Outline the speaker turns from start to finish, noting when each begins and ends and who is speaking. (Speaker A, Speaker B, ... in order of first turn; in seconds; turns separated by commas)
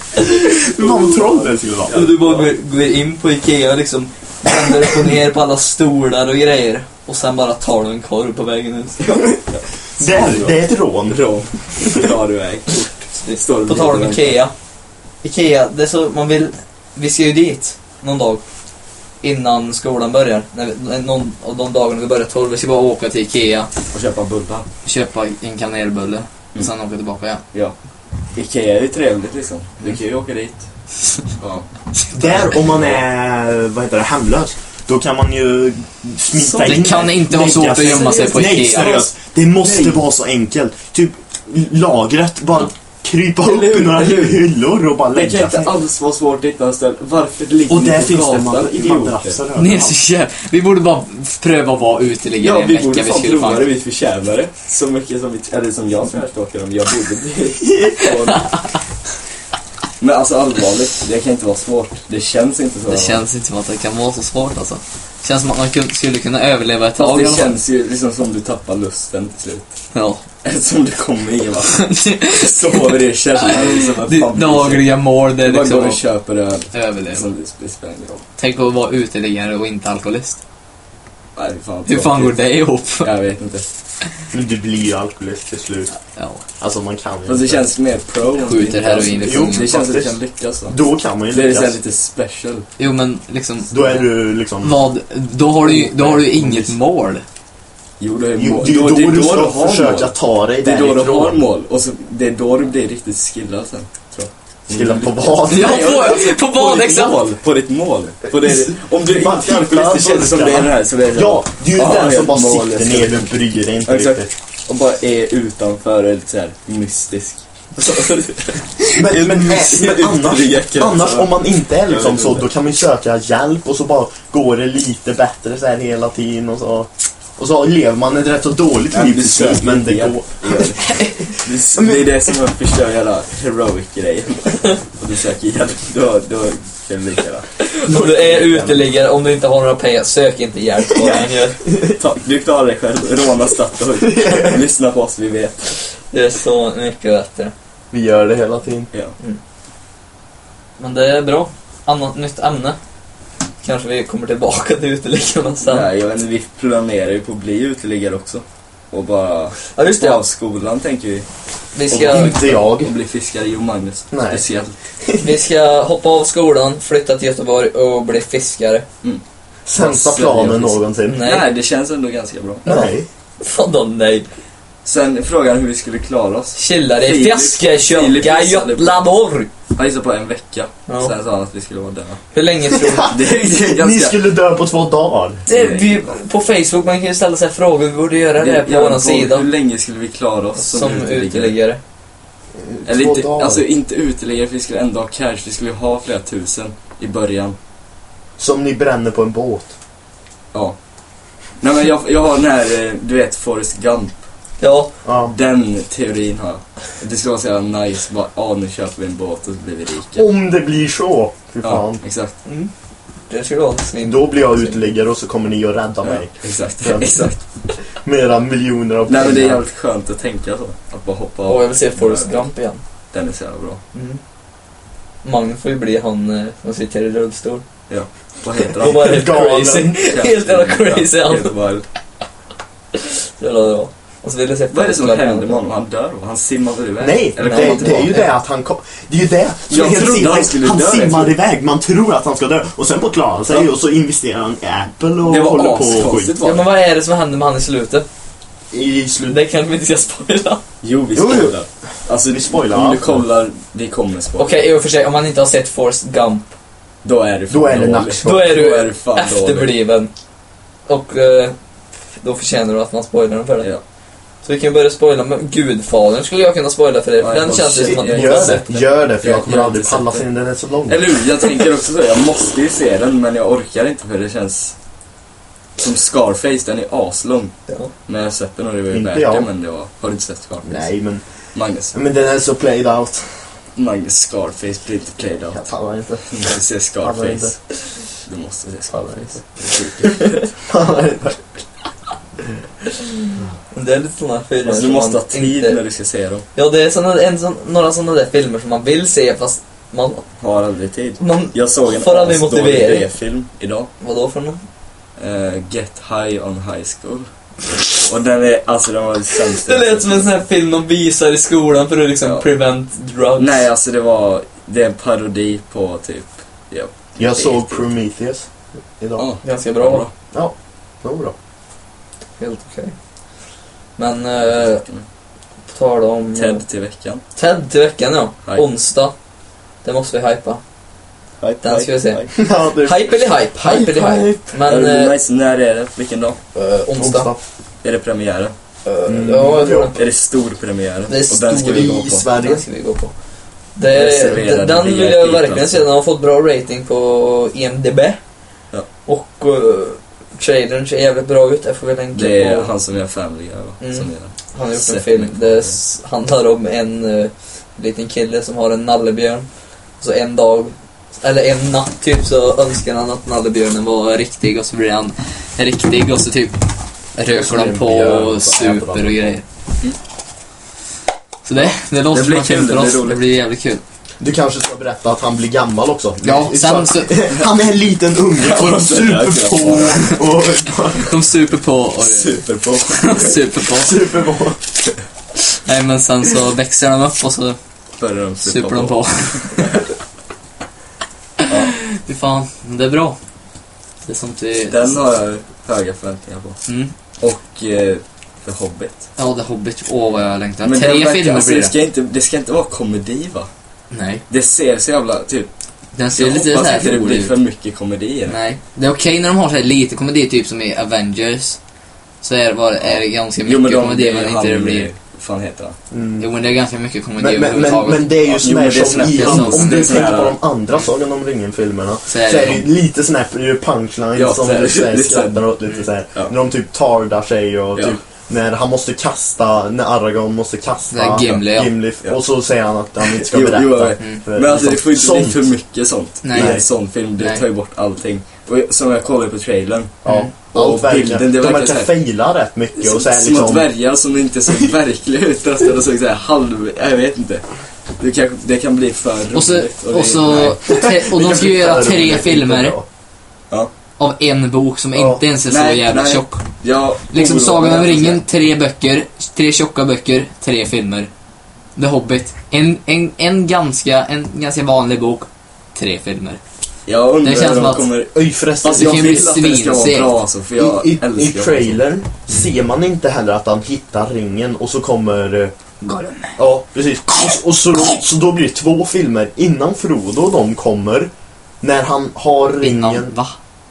Speaker A: 0.1-2.1, Speaker B: 0.5-2.5, Speaker C: 1.9-9.1, Speaker A: 9.1-9.3, Speaker B: 9.5-14.4, Speaker A: 10.0-12.1, Speaker C: 13.1-14.5, Speaker C: 15.2-18.4, Speaker C: 19.2-23.7, Speaker B: 23.9-24.6, Speaker C: 24.8-27.4, Speaker B: 28.3-30.7, Speaker B: 31.4-31.7, Speaker A: 32.1-45.7, Speaker B: 32.2-33.0, Speaker B: 36.3-39.1, Speaker C: 36.6-39.0, Speaker B: 39.6-40.0, Speaker B: 43.4-44.4, Speaker B: 45.1-49.4, Speaker A: 47.7-50.0, Speaker C: 49.5-53.6, Speaker B: 52.4-58.5, Speaker C: 58.0-58.6, Speaker B: 60.0-63.2, Speaker C: 62.9-67.5, Speaker B: 67.0-69.7, Speaker C: 69.9-70.2, Speaker B: 70.4-78.2, Speaker C: 71.7-76.0, Speaker C: 76.7-77.2, Speaker C: 78.4-80.4, Speaker B: 81.3-82.4, Speaker C: 81.9-83.1, Speaker B: 83.0-83.7, Speaker A: 84.3-85.9, Speaker C: 86.1-86.4, Speaker A: 86.6-87.6, Speaker B: 87.2-90.8, Speaker C: 88.4-89.7, Speaker A: 89.2-90.2, Speaker A: 90.7-91.8, Speaker B: 91.3-92.7, Speaker C: 92.8-94.1, Speaker A: 93.7-94.8, Speaker C: 94.6-97.2, Speaker A: 95.6-96.7, Speaker B: 98.0-113.3, Speaker A: 98.4-101.4, Speaker A: 104.7-106.0, Speaker C: 105.5-107.2, Speaker A: 108.4-114.3, Speaker B: 113.8-122.5, Speaker A: 118.9-130.7, Speaker B: 128.9-138.8, Speaker C: 130.8-131.2, Speaker A: 131.7-132.2, Speaker C: 137.6-141.6, Speaker B: 141.8-145.7, Speaker A: 144.1-144.6, Speaker C: 146.1-147.5, Speaker A: 147.9-148.9, Speaker C: 150.8-152.8, Speaker C: 153.6-155.9, Speaker B: 155.6-161.2, Speaker C: 159.7-160.2, Speaker C: 161.7-162.4, Speaker B: 161.9-164.8, Speaker A: 161.9-162.9, Speaker A: 164.1-164.4, Speaker C: 165.2-168.8, Speaker A: 169.7-171.3, Speaker B: 169.8-172.8, Speaker C: 171.1-171.5, Speaker A: 172.6-173.1, Speaker C: 173.4-174.2, Speaker B: 174.8-179.0, Speaker C: 176.5-179.5, Speaker B: 179.7-182.2, Speaker C: 180.9-181.1, Speaker C: 182.3-183.1, Speaker A: 182.8-185.4, Speaker B: 183.1-184.2, Speaker C: 185.5-189.4, Speaker B: 185.5-186.1, Speaker B: 188.4-191.6, Speaker C: 190.6-191.8, Speaker A: 192.6-193.6, Speaker B: 192.8-197.6, Speaker A: 198.4-199.7, Speaker B: 201.6-204.2, Speaker C: 204.6-204.9, Speaker A: 205.0-205.3, Speaker B: 205.3-210.3, Speaker A: 210.2-212.0, Speaker B: 211.6-212.3, Speaker C: 212.4-212.7, Speaker C: 213.3-214.8, Speaker A: 214.0-217.3, Speaker B: 216.0-217.4, Speaker A: 217.9-219.6, Speaker B: 219.1-222.4, Speaker C: 221.5-222.8, Speaker B: 223.1-223.8, Speaker C: 223.9-224.2, Speaker C: 225.2-227.6, Speaker B: 227.9-229.2, Speaker C: 228.8-231.5, Speaker A: 228.8-229.9, Speaker B: 230.0-231.8, Speaker C: 232.9-235.6, Speaker B: 234.7-238.2, Speaker A: 237.0-246.3, Speaker C: 237.4-238.3, Speaker B: 239.7-241.3, Speaker B: 245.2-246.7, Speaker C: 246.4-248.1, Speaker A: 248.7-249.4, Speaker C: 249.3-250.6, Speaker B: 250.8-254.6, Speaker A: 251.1-251.6, Speaker A: 252.2-253.2, Speaker C: 254.4-256.5, Speaker B: 257.0-259.8, Speaker A: 257.5-258.5, Speaker C: 258.2-260.1, Speaker C: 260.9-261.5, Speaker C: 262.2-263.7, Speaker C: 264.4-268.8, Speaker B: 267.2-270.2, Speaker A: 267.8-271.1, Speaker B: 270.9-274.7, Speaker B: 275.8-277.5, Speaker B: 278.1-280.9, Speaker A: 278.9-279.5, Speaker A: 280.6-281.2, Speaker B: 281.5-281.9, Speaker A: 281.9-283.5, Speaker B: 283.8-285.7, Speaker A: 285.5-286.5, Speaker B: 286.3-287.6, Speaker A: 287.0-287.5, Speaker B: 288.2-290.4, Speaker A: 288.9-289.2, Speaker A: 290.6-291.6, Speaker C: 293.7-295.8, Speaker B: 294.6-296.4, Speaker C: 296.5-300.2, Speaker B: 300.4-303.9, Speaker C: 301.2-303.1, Speaker C: 304.0-304.6, Speaker B: 305.2-310.3, Speaker C: 309.6-313.6, Speaker B: 313.4-317.8, Speaker A: 317.2-319.2, Speaker B: 319.2-320.1, Speaker C: 319.4-320.1, Speaker A: 320.3-321.3, Speaker C: 322.4-322.9, Speaker C: 324.0-324.8, Speaker B: 324.6-325.0, Speaker C: 325.7-326.6, Speaker B: 326.3-327.2, Speaker C: 327.4-329.1, Speaker C: 329.8-330.6, Speaker B: 331.4-332.3, Speaker C: 331.6-332.3, Speaker A: 332.3-334.4, Speaker C: 332.8-335.1, Speaker B: 334.6-336.4, Speaker C: 336.5-337.3, Speaker A: 336.9-337.4, Speaker B: 337.8-338.5, Speaker C: 338.8-340.0, Speaker A: 339.1-339.9, Speaker B: 339.9-342.2, Speaker C: 341.1-343.1, Speaker A: 341.6-342.6, Speaker C: 343.8-348.2, Speaker B: 343.9-345.9, Speaker C: 349.1-352.7, Speaker B: 352.1-355.8, Speaker C: 353.8-359.5, Speaker C: 360.0-366.6, Speaker C: 367.1-369.4, Speaker A: 367.3-369.4, Speaker C: 371.4-373.8, Speaker B: 371.6-373.2, Speaker A: 374.2-381.2, Speaker C: 376.2-377.2, Speaker B: 378.4-380.2, Speaker C: 380.9-384.0, Speaker B: 382.0-383.4, Speaker A: 383.7-384.6, Speaker C: 385.5-387.6, Speaker B: 388.0-389.8, Speaker C: 388.4-389.8, Speaker C: 391.4-393.2, Speaker C: 394.1-395.0, Speaker B: 394.7-396.6, Speaker C: 396.7-396.9, Speaker B: 397.2-399.1, Speaker C: 399.2-401.7, Speaker B: 400.6-403.5, Speaker C: 403.9-404.2, Speaker B: 404.3-405.5, Speaker C: 405.9-407.3, Speaker B: 406.1-408.4, Speaker C: 408.3-411.6, Speaker C: 412.2-414.9, Speaker B: 412.8-415.8, Speaker A: 415.9-416.3, Speaker C: 416.2-418.2, Speaker A: 417.2-435.5, Speaker B: 418.3-420.4, Speaker C: 419.0-420.1, Speaker C: 422.1-422.6, Speaker B: 424.1-425.6, Speaker C: 430.9-431.7, Speaker B: 433.1-440.0, Speaker C: 436.2-436.6, Speaker A: 436.3-436.6, Speaker C: 437.2-437.4, Speaker A: 440.0-443.7, Speaker C: 440.1-440.3, Speaker B: 440.5-441.9, Speaker B: 442.8-447.4, Speaker B: 448.0-450.6, Speaker C: 449.3-452.7, Speaker A: 450.6-452.9, Speaker C: 454.0-456.4, Speaker A: 454.9-455.2, Speaker B: 455.4-458.2, Speaker C: 457.1-461.1, Speaker C: 461.8-466.4, Speaker B: 466.9-471.8, Speaker C: 467.2-467.9, Speaker A: 468.1-469.2, Speaker C: 468.7-470.1, Speaker A: 470.6-475.5, Speaker C: 475.8-476.4, Speaker A: 476.4-483.1, Speaker C: 482.6-483.4